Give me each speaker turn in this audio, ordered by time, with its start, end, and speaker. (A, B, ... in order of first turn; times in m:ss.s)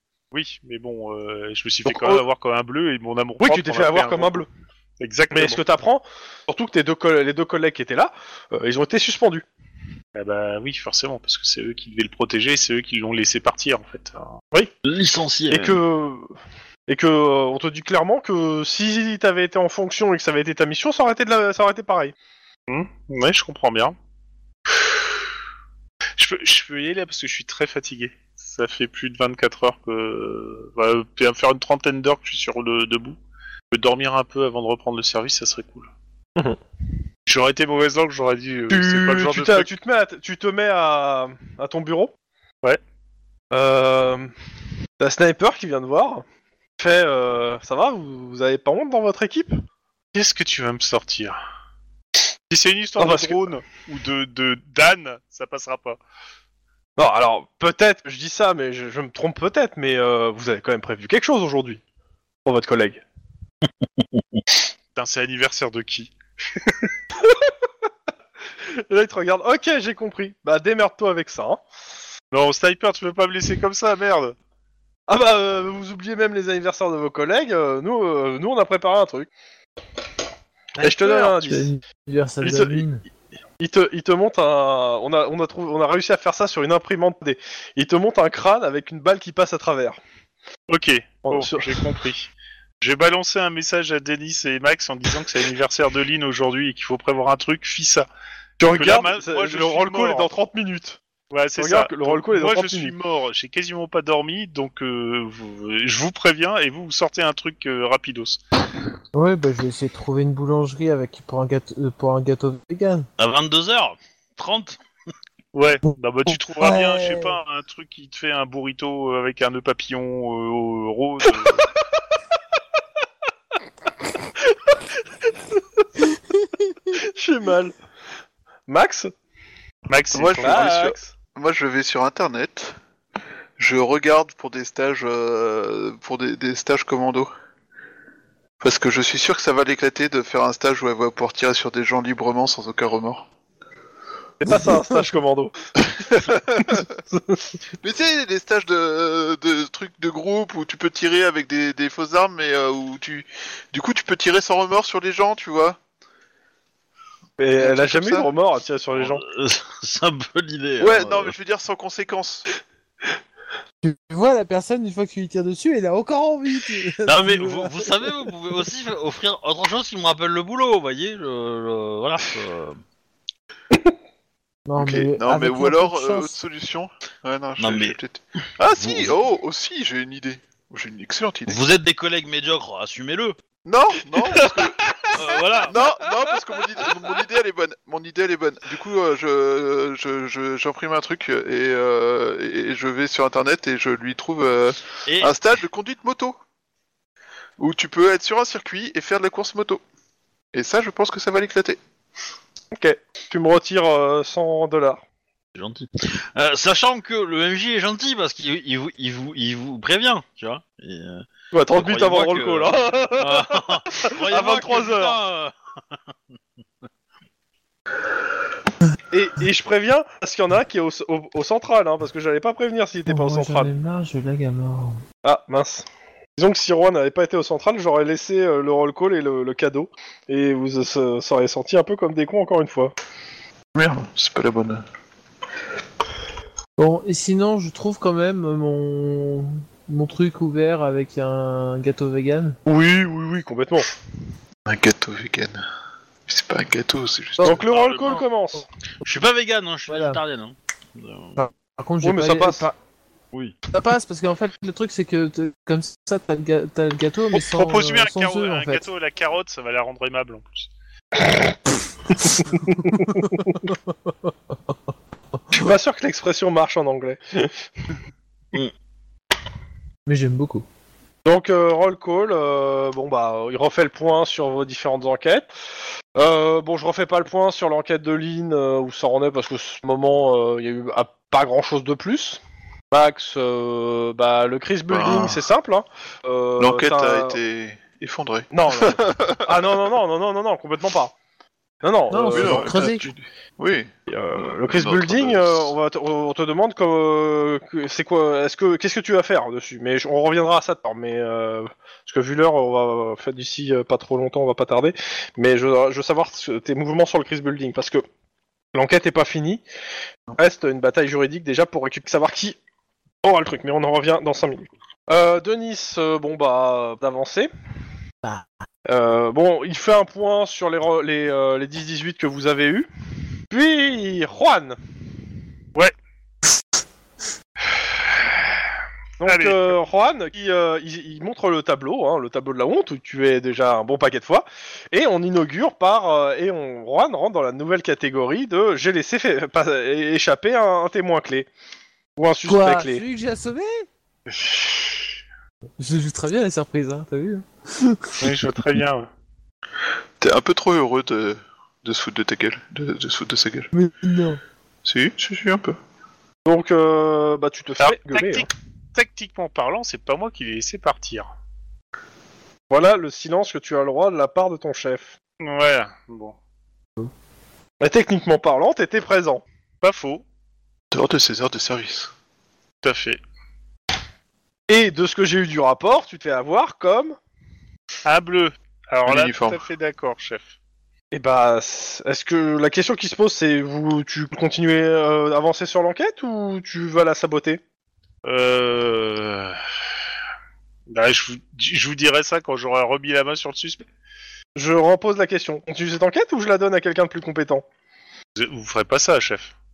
0:00.3-0:04.4 A
0:01.8-0:02.2 B
0:03.4-0:04.5 B
0:05.0-0:05.6 A
0:05.3-0:09.5 B
0:10.1-0:14.4 A
0:14.8-0:15.8 C
0:15.5-0:16.3 B
0:16.9-0:22.1 B
0:22.7-0:23.9 A
0:26.2-0:33.2 A
0:33.7-0:35.9 A
0:37.3-0:39.7 A
0:38.7-0:42.1 B
0:43.5-0:44.3 B
0:45.0-0:46.2 B
0:46.8-0:49.6 B
0:50.1-0:51.4 A
0:52.5-0:56.0 A
0:53.0-0:53.4 B
0:57.0-1:01.8 B
1:02.4-1:03.0 B
1:04.9-1:06.1 A
1:07.1-1:07.7 B
1:08.6-1:11.6 B
1:12.3-1:14.3 A
1:15.1-1:19.3 B
1:20.8-1:21.7 B
1:20.8-1:23.0 D
1:22.4-1:22.8 B
1:23.6-1:30.0 B
1:30.7-1:38.1 A
1:31.2-1:31.8 B
1:38.6-1:41.0 B
1:38.6-1:40.3 A
1:41.3-1:48.4 A
1:41.6-1:42.9 B
1:49.1-1:53.1 D
1:53.2-1:54.8 C
1:55.5-2:01.6 A
1:56.6-1:57.4 D
2:04.5-2:04.8 B
2:05.3-2:05.8 B
2:06.9-2:07.7 B
2:08.7-2:09.1 B
2:09.9-2:10.7 A
2:10.1-2:12.8 E
2:10.4-2:11.0 B
2:13.6-2:17.3 E
2:18.6-2:23.3 E
2:24.4-2:25.5 B
2:25.9-2:26.9 E
2:26.7-2:27.5 B
2:27.8-2:35.8 E
2:37.4-2:39.2 B
2:37.6-2:38.3 E
2:38.9-2:41.3 C
2:40.8-2:42.5 E
2:43.8-2:48.1 D
2:47.0-2:52.8 C
2:54.6-2:56.4 D
2:54.8-3:01.6 E
2:57.6-2:58.0 C
2:58.7-2:59.1 C
3:01.5-3:03.4 C
3:03.6-3:16.4 E
3:05.1-3:05.8 C
3:15.0-3:15.3 C
3:17.6-3:19.8 E
3:20.5-3:21.8 E
3:22.7-3:25.0 B
3:25.5-3:35.5 C
3:31.5-3:35.2 B
3:39.1-3:43.7 B
3:43.1-3:45.0 D
3:45.2-3:52.9 B
3:53.7-3:54.8 E
3:56.8-4:02.6 D
4:02.6-4:03.9 B
4:04.6-4:05.6 E
4:06.3-4:07.6 E
4:07.4-4:08.7 B
4:07.7-4:08.2 A
4:07.8-4:08.2 C
4:09.0-4:11.4 C
4:09.9-4:10.2 D
4:11.4-4:12.7 D
4:12.0-4:12.7 B
4:13.7-4:18.8 D
4:17.3-4:20.7 A
4:22.7-4:23.7 D
4:22.7-4:23.5 B
4:25.5-4:27.9 B
4:30.0-4:30.6 D
4:31.2-4:35.5 B
4:36.1-4:47.4 B
4:44.9-4:45.4 E
4:46.6-4:49.4 E
4:48.5-4:51.1 B
4:51.8-4:53.0 B
4:52.1-4:53.1 D
4:52.2-4:53.9 E
4:54.1-5:08.0 B
4:54.4-4:55.7 E
5:08.7-5:09.6 B
5:10.4-5:12.6 B
5:13.2-5:17.5 B
5:18.8-5:22.9 B
5:23.5-5:24.8 B
5:29.2-5:41.5 B
5:29.2-5:29.7 A
5:42.2-5:43.0 B
5:42.4-5:43.8 D
5:45.8-5:48.3 D
5:48.2-5:49.1 A
5:50.2-5:53.7 E
5:53.7-5:54.4 D
5:54.8-5:55.8 E
5:56.4-5:58.5 B
5:57.8-6:01.3 A
6:02.7-6:05.1 B
6:05.4-6:06.3 A
6:07.8-6:09.4 B
6:09.8-6:10.2 A
6:10.9-6:12.1 E
6:12.8-6:13.2 A
6:14.7-6:17.2 B
6:18.0-6:20.5 A
6:19.0-6:19.6 E
6:21.1-6:27.6 B
6:28.2-6:29.6 A
6:30.9-6:33.8 A
6:34.6-6:37.6 B
6:38.4-6:39.5 A